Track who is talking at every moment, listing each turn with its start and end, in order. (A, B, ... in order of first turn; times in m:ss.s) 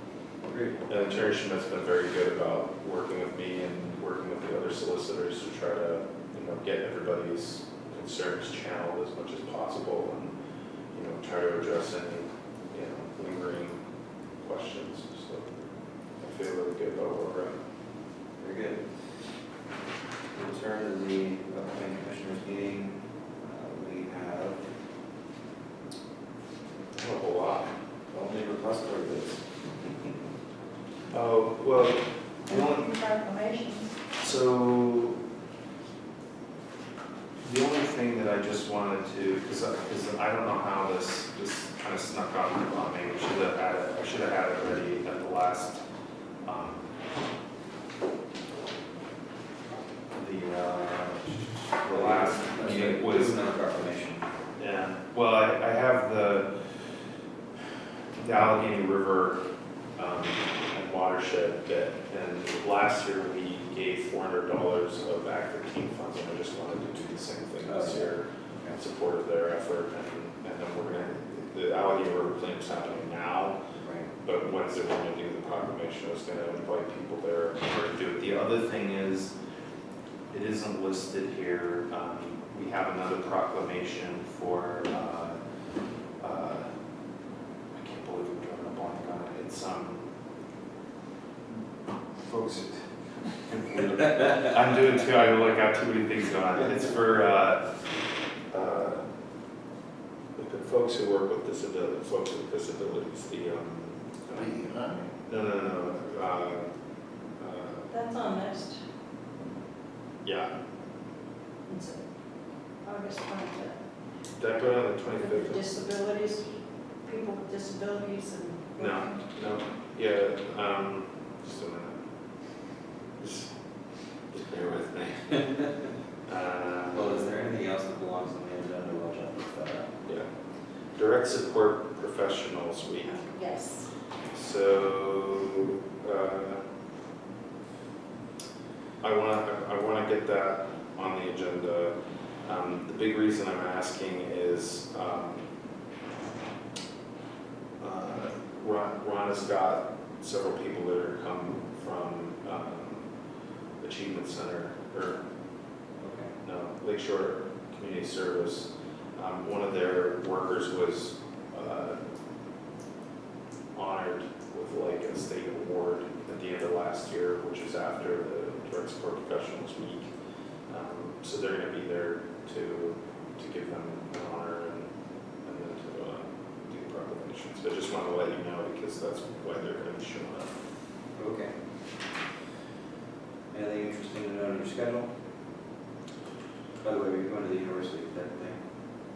0:00.4-0:00.9 A
0:00.9-0:10.4 B
0:10.9-0:13.8 B
0:14.4-0:17.6 B
0:18.4-0:19.4 A
0:20.3-0:24.7 A
0:27.0-0:27.8 B
0:28.1-0:29.9 A
0:31.1-0:33.1 B
0:32.5-0:33.9 C
0:34.2-0:35.2 B
0:37.4-0:45.8 B
0:46.4-0:46.9 B
0:50.2-0:53.4 B
0:51.9-0:54.3 A
0:54.6-0:57.0 B
0:58.2-0:59.4 B
1:00.0-1:13.6 B
1:07.6-1:08.8 A
1:13.8-1:14.1 A
1:14.2-1:19.3 B
1:20.3-1:25.4 B
1:26.2-1:26.8 B
1:27.7-1:30.1 B
1:32.2-1:32.8 B
1:33.5-1:37.8 B
1:38.4-1:39.1 B
1:40.4-1:44.5 B
1:45.2-1:46.7 B
1:47.2-1:47.9 B
1:47.9-1:48.8 C
1:50.2-1:50.5 B
1:51.7-1:52.0 C
1:52.8-1:53.8 C
1:54.4-1:55.7 B
1:55.2-1:59.2 C
1:58.8-2:02.0 B
2:03.2-2:05.7 B
2:06.3-2:07.5 B
2:06.9-2:09.9 A
2:10.9-2:13.3 B
2:13.2-2:13.9 C
2:14.3-2:16.6 B
2:19.0-2:25.5 B
2:27.8-2:33.2 B
2:33.8-2:35.2 B
2:36.0-2:36.3 A
2:36.4-2:42.0 B
2:43.7-2:50.1 B
2:50.7-3:00.6 B
3:01.1-3:01.6 A
3:03.5-3:05.1 A
3:06.8-3:08.6 A